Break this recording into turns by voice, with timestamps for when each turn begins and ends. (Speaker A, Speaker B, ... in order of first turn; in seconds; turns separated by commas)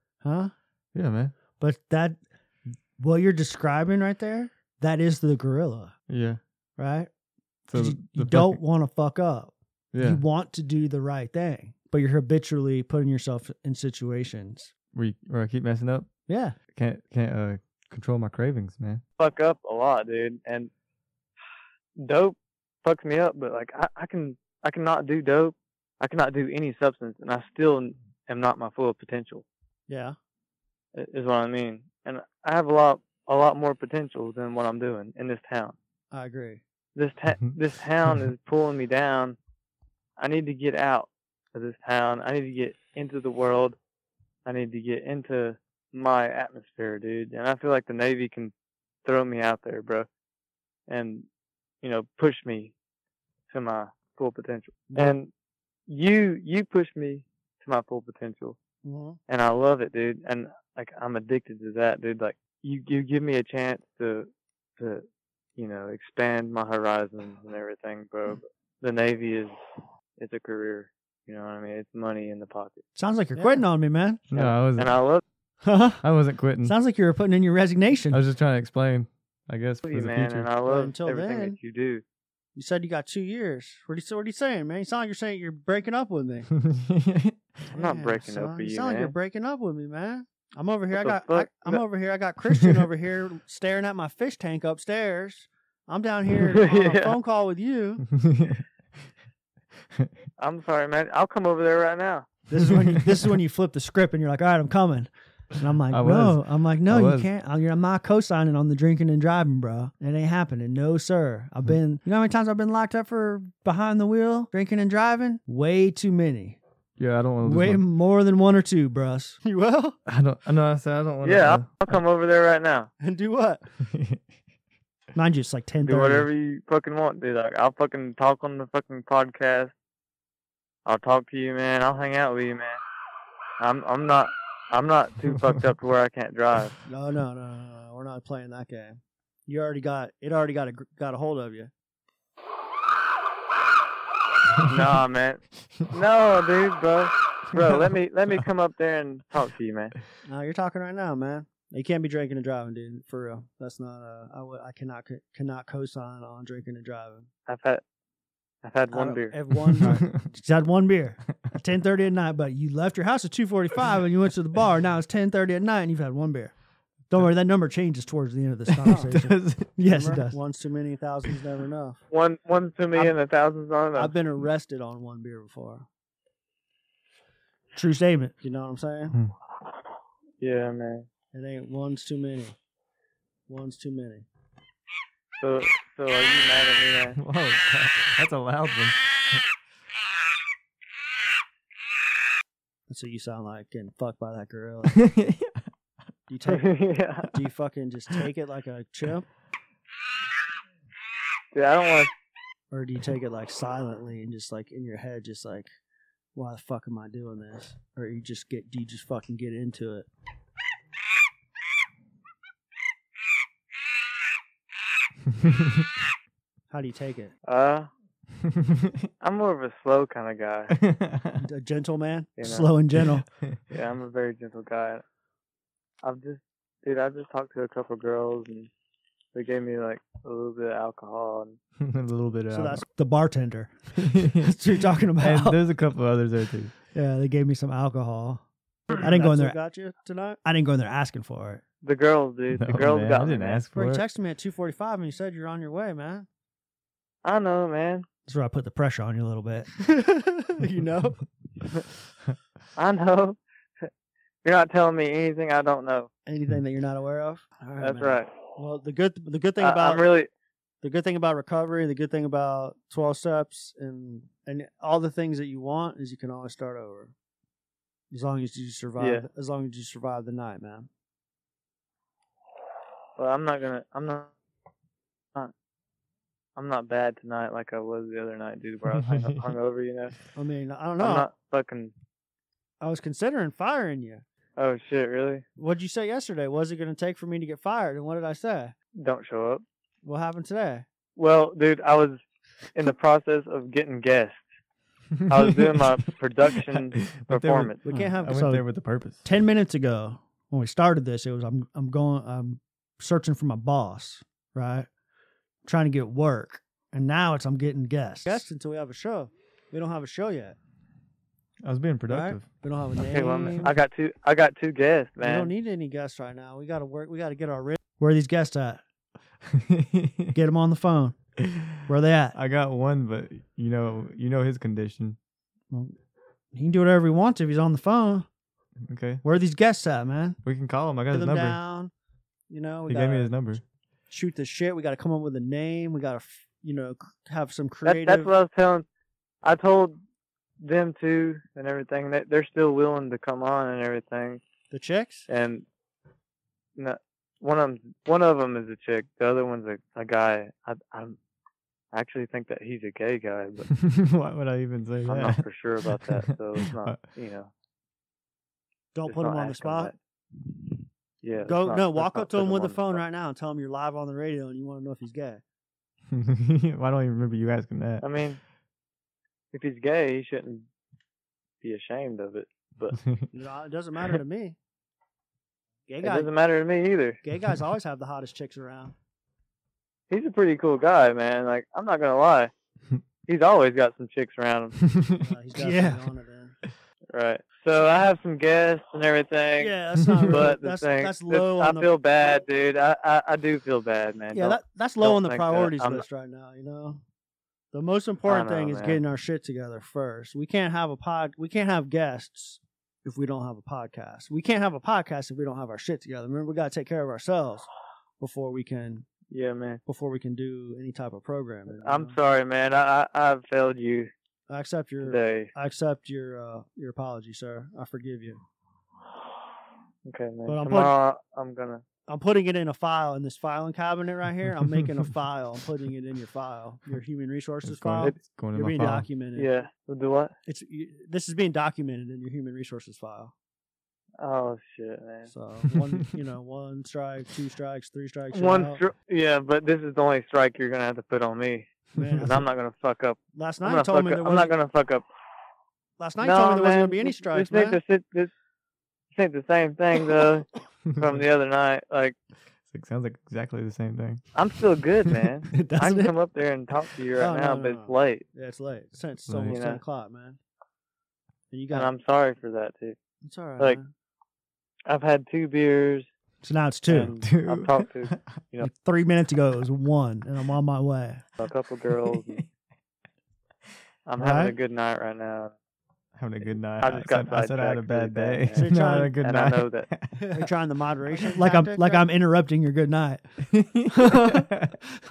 Speaker A: 0.2-0.5, Speaker B: 0.9-1.3, Speaker A: 1.6-2.2, Speaker A: 3.0-5.9, Speaker B: 6.1-6.4, Speaker A: 6.8-7.1, Speaker B: 7.7-8.6, Speaker A: 7.7-14.7, Speaker B: 9.9-10.2, Speaker B: 14.9-16.1, Speaker A: 16.3-16.6, Speaker B: 16.7-19.0, Speaker C: 19.2-20.7, Speaker C: 22.0-29.4, Speaker A: 29.9-30.1, Speaker C: 30.9-35.8, Speaker A: 36.1-36.6, Speaker C: 37.0-39.4, Speaker C: 40.2-43.8, Speaker C: 44.5-48.5, Speaker C: 49.0-50.1, Speaker C: 50.9-51.3, Speaker C: 51.8-52.7, Speaker C: 53.5-55.3, Speaker A: 54.9-55.2, Speaker C: 55.9-58.6, Speaker A: 58.8-59.2, Speaker C: 59.3-65.0, Speaker C: 65.6-69.5, Speaker C: 70.2-72.8, Speaker A: 73.0-74.2, Speaker B: 74.3-74.9, Speaker C: 74.3-75.2, Speaker A: 75.6-76.0, Speaker B: 76.0-76.7, Speaker A: 76.6-78.2, Speaker B: 78.1-80.5, Speaker C: 79.8-82.0, Speaker A: 80.7-81.6, Speaker A: 82.5-86.5, Speaker B: 86.6-87.4, Speaker A: 87.7-98.0, Speaker C: 87.7-89.1, Speaker C: 91.0-91.8, Speaker C: 96.5-97.2, Speaker B: 98.1-98.6, Speaker C: 100.4-102.3, Speaker A: 102.5-116.6, Speaker B: 102.7-103.1, Speaker B: 105.9-107.3, Speaker B: 117.0-117.8, Speaker A: 117.4-120.0, Speaker B: 120.1-122.0, Speaker C: 121.2-122.9, Speaker A: 123.0-123.6, Speaker B: 123.8-124.2, Speaker A: 125.1-126.3, Speaker C: 125.8-129.7, Speaker C: 130.8-132.8, Speaker C: 133.6-136.8, Speaker A: 136.9-141.7, Speaker C: 144.6-149.9, Speaker A: 150.2-157.3, Speaker C: 157.5-157.8, Speaker C: 158.6-159.5, Speaker A: 158.9-166.5, Speaker B: 159.8-160.2, Speaker A: 167.1-172.0, Speaker B: 168.7-170.4, Speaker C: 172.1-174.2, Speaker A: 173.9-175.9, Speaker A: 177.7-179.2, Speaker C: 180.4-181.1, Speaker A: 181.3-182.6, Speaker A: 183.5-184.2, Speaker C: 185.4-187.2, Speaker B: 187.2-189.0, Speaker A: 192.9-195.0, Speaker B: 194.9-195.6, Speaker A: 196.3-199.3, Speaker C: 196.4-197.3, Speaker C: 201.5-202.1, Speaker A: 202.7-205.7, Speaker A: 206.3-210.1, Speaker A: 216.7-217.3, Speaker C: 217.4-217.9, Speaker B: 218.5-219.0, Speaker C: 219.2-220.8, Speaker B: 220.7-221.4, Speaker A: 221.4-223.2, Speaker C: 222.4-222.7, Speaker C: 223.7-225.0, Speaker C: 226.0-228.7, Speaker C: 229.3-231.6, Speaker B: 231.8-232.8, Speaker A: 232.5-235.6, Speaker B: 234.0-234.6, Speaker B: 235.2-236.7, Speaker A: 236.9-241.6, Speaker C: 239.2-239.5, Speaker C: 241.8-243.6, Speaker B: 242.5-244.1, Speaker A: 243.7-246.3, Speaker C: 247.2-248.1, Speaker A: 248.3-251.2, Speaker C: 252.8-253.9, Speaker C: 254.4-256.1, Speaker A: 256.3-260.1, Speaker C: 257.8-258.3, Speaker C: 259.6-260.3, Speaker A: 260.8-267.1, Speaker A: 268.1-270.9, Speaker C: 269.0-269.2, Speaker C: 273.2-274.3, Speaker C: 276.6-280.2, Speaker A: 280.3-281.3, Speaker C: 281.0-281.9, Speaker A: 282.8-284.2, Speaker C: 284.6-285.4, Speaker A: 285.6-288.7, Speaker C: 289.0-289.6, Speaker A: 290.0-290.8, Speaker C: 291.1-292.2, Speaker C: 292.7-294.4, Speaker C: 295.3-297.8, Speaker B: 295.3-295.8, Speaker B: 296.6-299.2, Speaker A: 297.8-298.6, Speaker A: 299.2-304.9, Speaker A: 305.6-310.6, Speaker B: 311.6-312.4, Speaker A: 312.1-313.7, Speaker C: 313.0-315.5, Speaker A: 315.2-318.8, Speaker B: 319.4-320.4, Speaker A: 320.3-321.1, Speaker B: 321.4-321.8, Speaker A: 321.9-322.4, Speaker B: 322.3-325.2, Speaker A: 326.5-328.3, Speaker B: 328.8-329.2, Speaker A: 329.2-330.4, Speaker B: 330.4-331.6, Speaker A: 331.1-331.9, Speaker A: 332.5-333.3, Speaker B: 332.9-333.6, Speaker A: 334.1-338.3, Speaker C: 337.8-338.9, Speaker C: 339.4-340.0, Speaker C: 340.6-344.4, Speaker A: 344.7-345.3, Speaker C: 345.3-345.6, Speaker C: 346.8-351.2, Speaker C: 351.9-353.7, Speaker B: 353.7-357.0, Speaker C: 355.0-357.5, Speaker A: 358.9-359.9, Speaker C: 359.1-359.9, Speaker C: 361.2-363.0, Speaker A: 361.4-365.4, Speaker B: 366.1-368.0, Speaker C: 368.0-368.4, Speaker C: 369.5-370.7, Speaker C: 371.6-373.0, Speaker A: 373.3-374.6, Speaker A: 375.9-376.3, Speaker C: 376.0-377.2, Speaker A: 377.2-378.9, Speaker C: 380.1-382.5, Speaker C: 383.3-384.8, Speaker B: 384.9-386.1, Speaker A: 385.2-386.5, Speaker C: 387.1-396.1, Speaker A: 389.6-391.9, Speaker A: 394.3-397.0, Speaker A: 397.7-407.7, Speaker C: 398.2-399.0, Speaker A: 408.2-409.1, Speaker C: 409.3-409.8, Speaker A: 409.9-412.2, Speaker C: 411.7-414.1, Speaker A: 414.5-418.4, Speaker C: 415.0-415.5, Speaker C: 420.1-421.8, Speaker A: 420.4-420.9, Speaker A: 422.1-429.5, Speaker B: 427.6-429.1, Speaker C: 429.4-430.3, Speaker A: 430.5-433.3, Speaker C: 434.2-435.3, Speaker A: 435.3-438.8, Speaker C: 438.3-445.1, Speaker A: 441.9-442.4, Speaker A: 443.3-444.5, Speaker A: 446.0-447.8, Speaker C: 446.2-448.3, Speaker C: 449.1-452.1, Speaker B: 450.9-451.2, Speaker B: 452.7-454.2, Speaker C: 454.3-458.2, Speaker A: 455.5-456.1, Speaker A: 457.2-460.4, Speaker B: 459.3-459.6, Speaker C: 459.5-459.8, Speaker A: 461.5-461.9, Speaker C: 461.7-463.0, Speaker A: 463.2-463.9, Speaker C: 464.9-466.1, Speaker A: 466.4-467.1, Speaker C: 466.9-468.7, Speaker B: 467.1-468.2, Speaker A: 468.6-471.2, Speaker C: 471.4-472.4, Speaker B: 472.1-472.4, Speaker C: 474.1-475.5, Speaker A: 474.2-474.5, Speaker B: 476.1-480.5, Speaker C: 476.8-479.9, Speaker A: 478.5-479.2, Speaker A: 480.2-483.2, Speaker B: 481.4-481.9, Speaker C: 481.4-482.0, Speaker B: 483.5-484.8, Speaker A: 483.9-484.5